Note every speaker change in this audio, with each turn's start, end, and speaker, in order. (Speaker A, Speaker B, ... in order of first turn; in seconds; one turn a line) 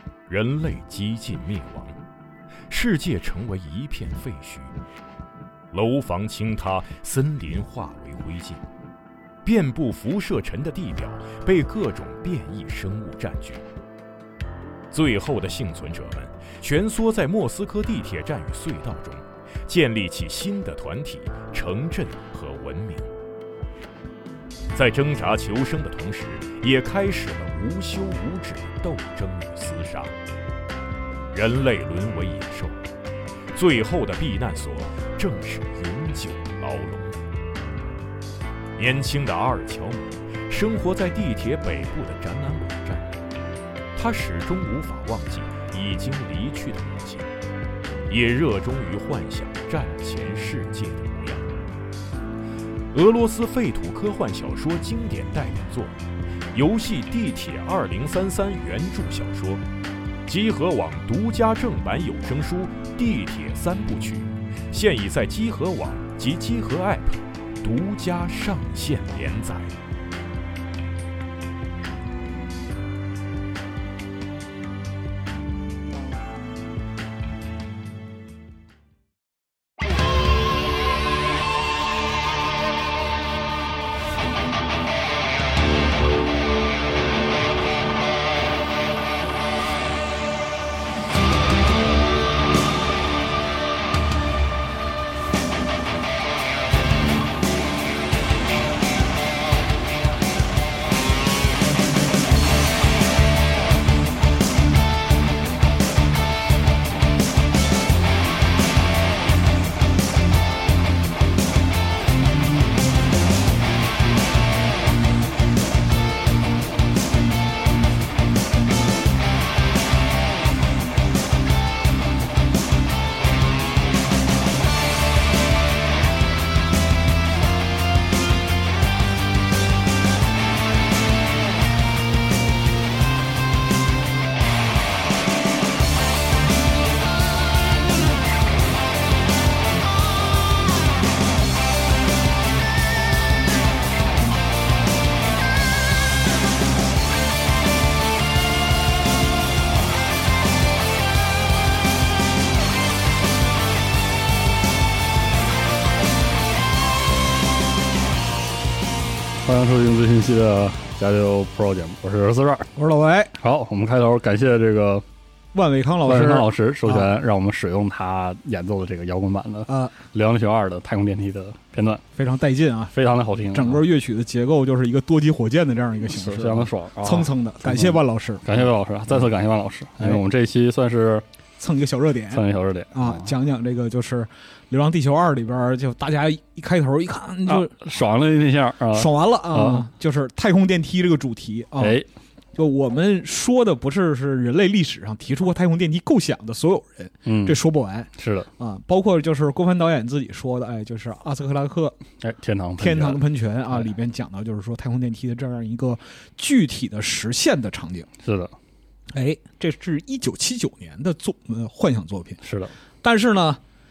Speaker A: 0.3-2.0
Speaker A: 2.7-4.8
Speaker A: 5.7-8.6
Speaker A: 9.4-13.6
Speaker A: 14.9-23.1
Speaker A: 24.7-30.1
Speaker A: 31.3-32.8
Speaker A: 33.5-37.2
Speaker A: 38.8-43.1
Speaker A: 43.9-47.3
Speaker A: 48.1-51.6
Speaker A: 52.9-56.0
Speaker A: 56.5-59.6
Speaker A: 60.2-69.8
Speaker B: 159.4-162.7
Speaker C: 162.7-163.4
Speaker B: 163.4-165.0
Speaker C: 165.5-167.1
Speaker B: 166.1-172.0
Speaker C: 169.7-169.9
Speaker C: 172.1-172.9
Speaker B: 172.9-173.8
Speaker C: 173.5-179.3
Speaker B: 176.1-181.2
Speaker C: 181.6-187.9
Speaker B: 182.3-183.3
Speaker B: 187.5-189.9
Speaker C: 188.9-192.0
Speaker B: 191.8-192.1
Speaker C: 192.6-202.0
Speaker B: 197.2-197.6
Speaker B: 198.2-198.5
Speaker B: 202.2-203.2
Speaker C: 202.8-208.1
Speaker B: 208.2-208.5
Speaker C: 209.1-212.4
Speaker B: 212.4-212.7
Speaker C: 213.0-213.6